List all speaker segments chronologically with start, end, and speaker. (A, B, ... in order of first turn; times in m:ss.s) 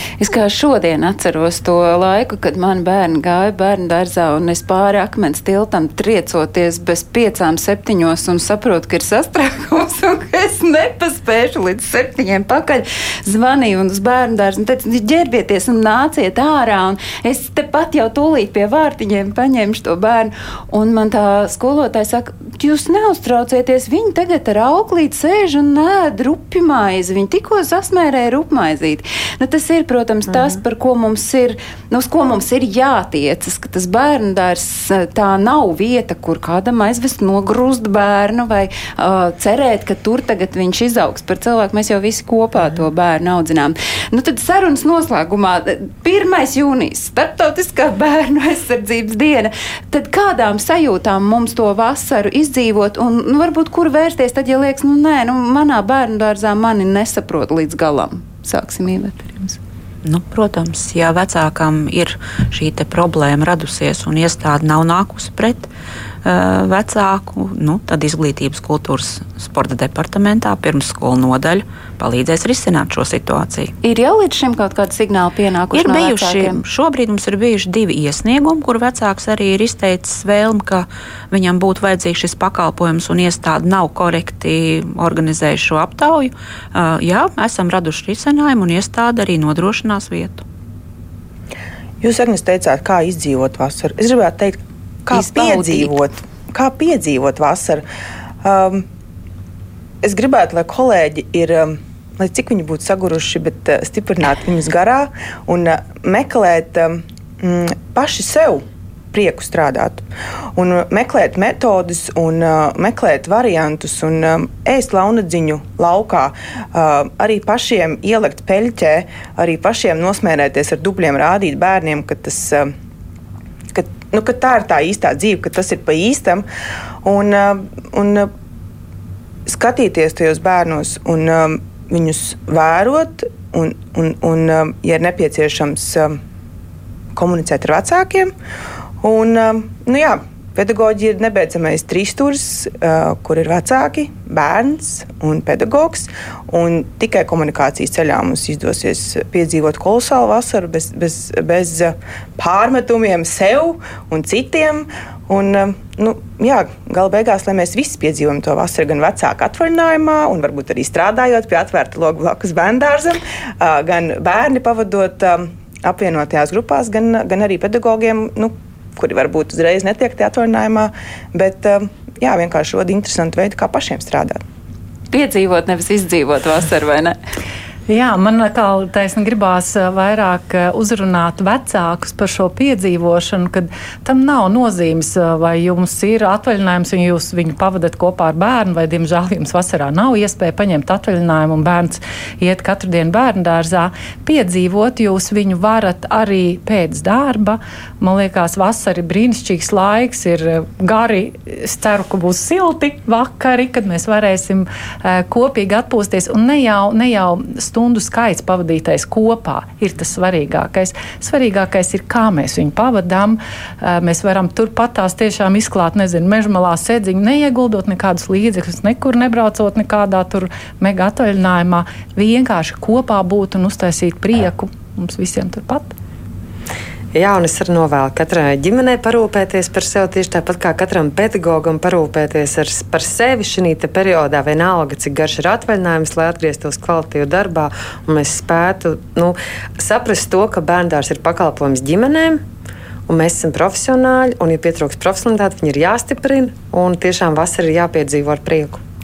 0:00.2-0:59.6 A
1:00.0-1:05.7 B
1:06.2-1:13.7 B
1:13.8-1:16.6 A
1:15.7-1:30.4 B
1:32.0-1:37.8 C
1:35.1-1:35.8 A
1:38.4-1:38.8 C
1:40.0-1:50.0 C
1:50.6-2:02.7 C
2:03.7-2:06.4 C
2:07.0-2:08.3 C
2:09.4-2:16.2 C
2:17.1-2:18.3 C
2:19.0-2:54.4 C
2:55.1-2:57.2 A
2:57.9-3:45.9 D
3:47.1-4:02.4 E
4:03.1-4:08.8 E